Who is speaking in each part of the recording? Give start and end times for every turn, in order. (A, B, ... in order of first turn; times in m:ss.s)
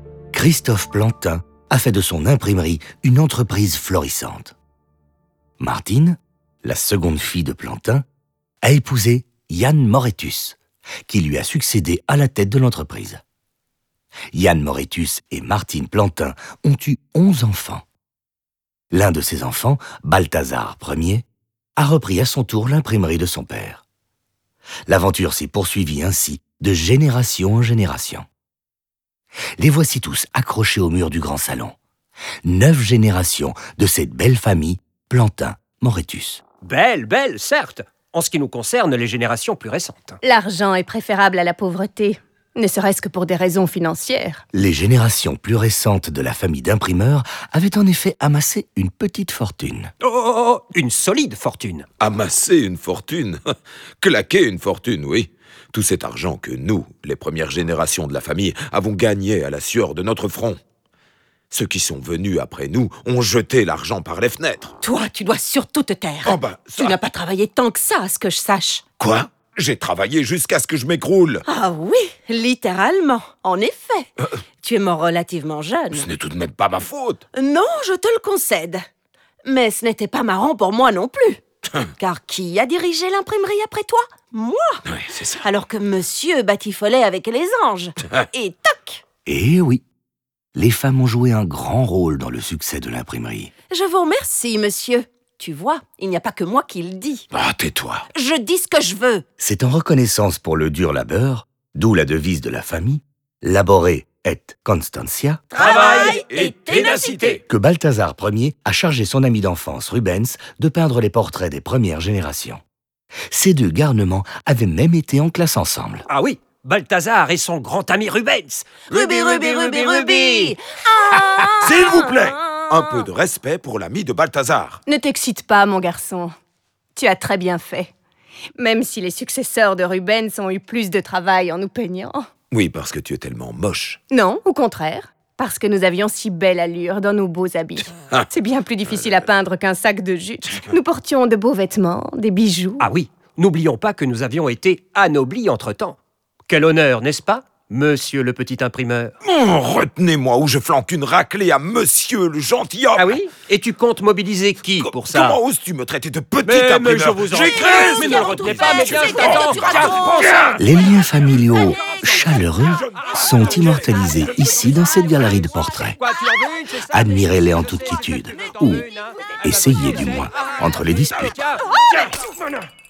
0:00.3-0:04.6 A
0:05.6-0:08.0 A
0:08.6-0:13.2 A
0:14.3-0:17.8 A
0:18.9-0:21.3 A
0:21.8-0:23.8 A
0:24.9-0:28.3 A
0:29.6-0:31.8 A
0:32.4-0:36.4 A
0:36.6-0:40.2 B
0:40.2-0:44.4 C
0:44.5-0:49.9 A
0:50.0-0:51.9 B
0:52.0-0:53.4 D
0:54.0-1:00.6 D
1:01.5-1:04.8 D
1:04.8-1:08.8 E
1:06.2-1:07.0 D
1:09.0-1:11.4 D
1:11.5-1:14.1 E
1:14.6-1:16.1 E
1:15.9-1:17.2 D
1:17.3-1:18.8 E
1:19.4-1:21.4 E
1:22.0-1:24.8 E
1:24.9-1:25.4 D
1:25.4-1:29.0 E
1:29.3-1:29.8 A
1:30.6-1:33.5 A
1:33.7-1:37.3 E
1:37.3-1:38.0 D
1:38.1-1:39.2 E
1:39.4-1:45.4 A
1:45.5-1:47.4 E
1:45.6-1:47.4 B
1:47.4-1:52.6 A
1:53.3-1:56.1 A
1:56.1-2:00.6 B
1:58.9-2:03.0 E
2:01.6-2:04.8 D
2:04.9-2:06.3 C
2:07.0-2:07.9 C
2:08.6-2:12.3 C
2:12.5-2:14.0 D
2:14.1-2:22.8 C
2:22.8-2:26.0 B
2:26.5-2:29.1 B
2:29.2-2:33.2 D
2:33.0-2:35.4 B
2:34.8-2:40.5 D
2:36.4-2:40.5 B
2:37.6-2:40.2 E
2:40.6-2:46.0 A
2:46.0-2:50.7 B
2:46.9-2:48.9 A
2:49.4-2:51.4 A
2:51.2-2:52.0 B